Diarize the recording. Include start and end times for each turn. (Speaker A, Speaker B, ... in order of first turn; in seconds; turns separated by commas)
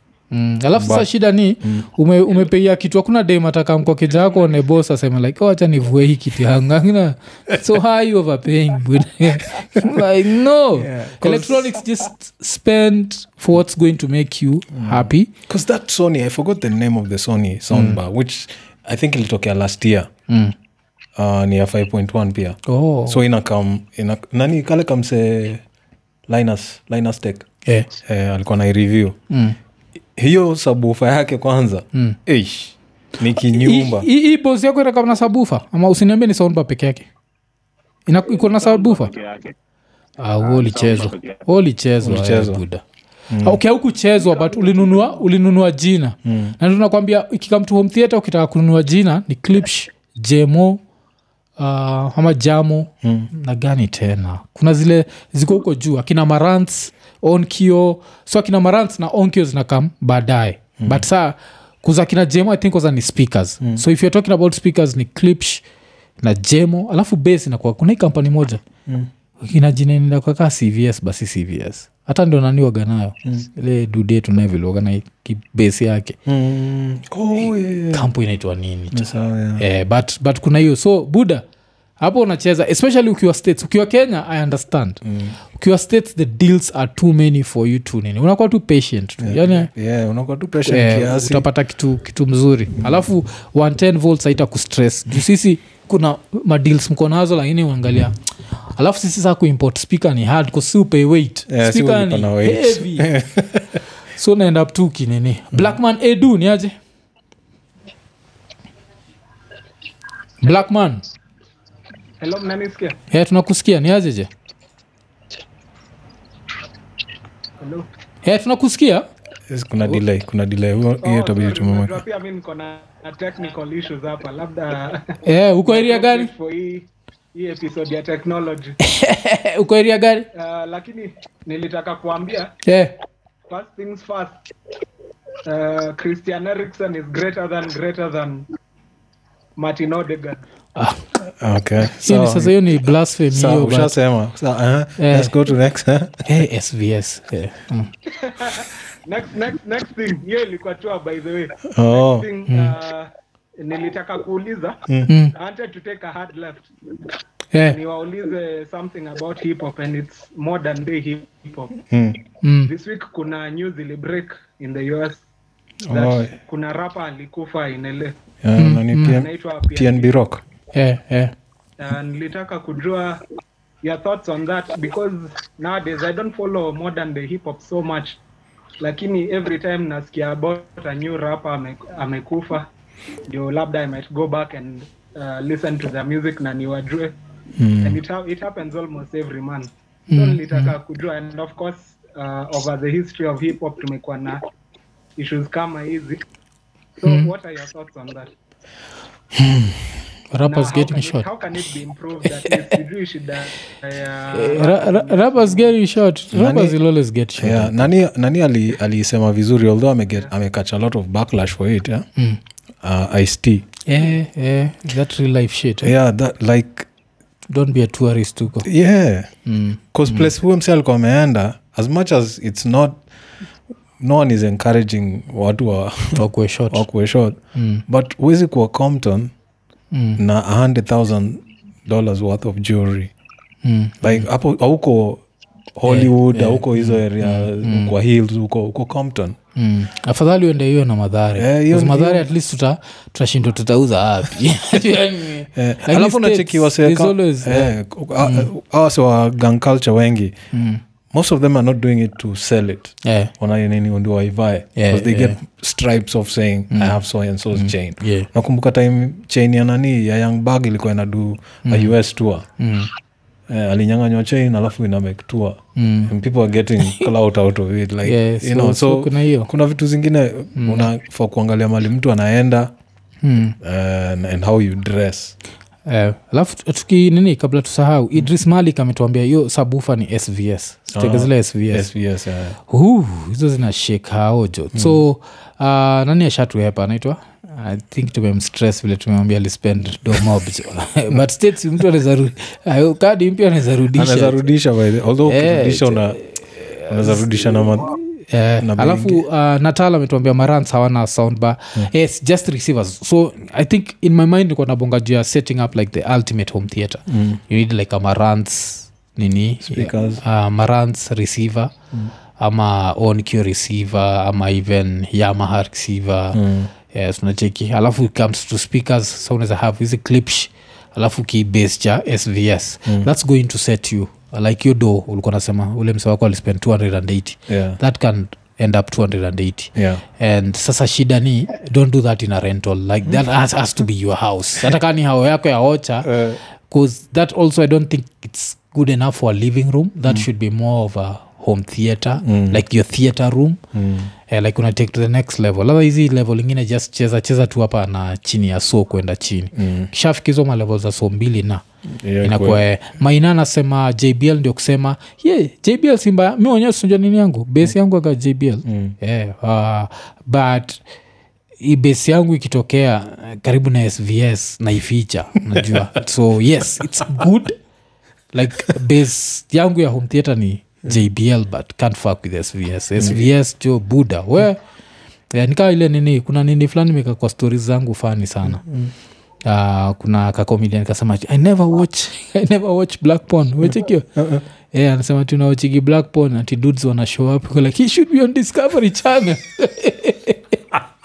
Speaker A: 0.3-15.3, Speaker B: 0.8-1.1, Speaker B: 1.6-1.9, Speaker B: 10.7-11.7, Speaker B: 14.7-20.1, Speaker A: 17.7-18.0, Speaker A: 20.3-20.5, Speaker B: 21.1-25.6, Speaker A: 22.7-23.2, Speaker B: 26.3-27.5, Speaker B: 28.0-29.2, Speaker A: 29.3-29.6, Speaker B: 30.1-34.1, Speaker A: 33.5-37.1, Speaker A: 38.1-39.1, Speaker C: 38.2-39.5, Speaker A: 40.2-42.8, Speaker C: 40.4-41.5, Speaker B: 42.0-42.6, Speaker B: 43.3-43.6, Speaker A: 43.4-50.8, Speaker B: 46.2-46.5, Speaker A: 51.6-65.6, Speaker B: 53.0-53.3, Speaker B: 60.8-61.0, Speaker A: 66.2-68.6, Speaker A: 69.4-76.2, Speaker B: 76.2-78.1, Speaker A: 77.9-81.4, Speaker B: 78.9-79.6, Speaker A: 82.0-85.0, Speaker B: 85.0-85.3, Speaker A: 85.5-89.7, Speaker B: 89.2-91.5, Speaker A: 90.7-98.1, Speaker A: 98.7-103.1, Speaker B: 101.5-103.8, Speaker A: 104.1-106.7, Speaker A: 110.4-111.0, Speaker D: 112.2-113.0, Speaker A: 113.1-114.3, Speaker D: 117.6-117.9, Speaker A: 118.2-119.1, Speaker B: 119.5-122.0, Speaker D: 121.0-128.8, Speaker A: 125.2-126.3, Speaker A: 128.8-130.3, Speaker D: 130.3-132.5, Speaker A: 132.7-132.9, Speaker D: 133.5-134.4, Speaker D: 135.4-138.5, Speaker D: 139.6-140.4, Speaker B: 141.3-142.7, Speaker A: 142.0-143.9, Speaker B: 143.3-146.2, Speaker A: 145.0-145.3, Speaker A: 146.2-147.9, Speaker D: 148.1-154.8, Speaker B: 151.7-152.3, Speaker A: 152.5-152.8, Speaker A: 155.1-155.3, Speaker D: 155.3-156.7, Speaker D: 157.7-161.7, Speaker B: 161.9-162.2, Speaker A: 162.4-162.7, Speaker D: 162.6-165.2, Speaker B: 165.9-166.3, Speaker D: 165.9-168.1, Speaker B: 168.4-170.4, Speaker A: 168.6-169.2, Speaker D: 169.0-170.1, Speaker A: 170.7-171.3, Speaker D: 171.8-173.2, Speaker D: 173.8-178.2, Speaker D: 178.8-182.7, Speaker D: 183.3-187.1, Speaker B: 187.6-188.0, Speaker D: 187.8-194.4, Speaker A: 190.1-190.7, Speaker D: 195.2-196.2, Speaker D: 197.0-198.3, Speaker A: 200.3-201.3, Speaker D: 200.4-205.8, Speaker A: 204.3-207.9, Speaker B: 206.3-206.8, Speaker B: 207.4-212.1, Speaker B: 212.8-213.7, Speaker A: 213.9-215.9, Speaker B: 215.8-216.9, Speaker A: 217.5-218.7, Speaker B: 218.6-219.3, Speaker A: 219.4-220.3, Speaker B: 219.9-223.0, Speaker B: 224.0-229.3, Speaker A: 226.2-226.9, Speaker A: 227.5-227.8, Speaker A: 229.9-230.2, Speaker B: 230.2-233.1, Speaker A: 233.6-234.3, Speaker B: 234.0-235.2, Speaker B: 235.8-239.4, Speaker A: 235.9-237.9, Speaker A: 239.6-248.5, Speaker B: 241.4-242.3, Speaker B: 245.5-250.3, Speaker A: 250.5-250.8, Speaker B: 251.1-262.4, Speaker A: 253.0-253.3, Speaker A: 254.8-255.4, Speaker A: 256.7-257.0, Speaker A: 257.5-258.3, Speaker A: 261.6-261.9, Speaker A: 262.6-262.9, Speaker B: 263.5-272.7, Speaker A: 265.8-266.1, Speaker A: 266.8-267.1, Speaker A: 268.0-269.5, Speaker A: 270.6-270.9, Speaker A: 273.2-273.6, Speaker B: 273.6-275.4, Speaker A: 275.9-281.9, Speaker B: 280.9-282.6, Speaker A: 282.7-294.5, Speaker B: 284.7-285.0, Speaker B: 293.9-296.2, Speaker A: 295.2-311.7, Speaker B: 296.9-298.0, Speaker B: 298.6-299.2, Speaker B: 307.1-307.4, Speaker B: 309.6-310.2, Speaker A: 312.4-316.4, Speaker B: 316.3-316.7, Speaker A: 316.9-336.1, Speaker B: 327.5-327.8, Speaker B: 329.7-330.0, Speaker B: 336.0-336.4, Speaker A: 336.7-343.6, Speaker B: 342.2-342.6, Speaker B: 343.7-344.1, Speaker A: 344.3-351.6, Speaker B: 349.5-349.9, Speaker B: 352.0-352.6, Speaker A: 352.2-360.8, Speaker B: 358.6-358.9, Speaker A: 361.6-367.6, Speaker A: 368.3-374.6, Speaker B: 373.0-373.2, Speaker A: 375.3-378.6, Speaker B: 378.4-378.9, Speaker A: 379.4-384.1, Speaker B: 383.6-384.4, Speaker A: 384.7-390.6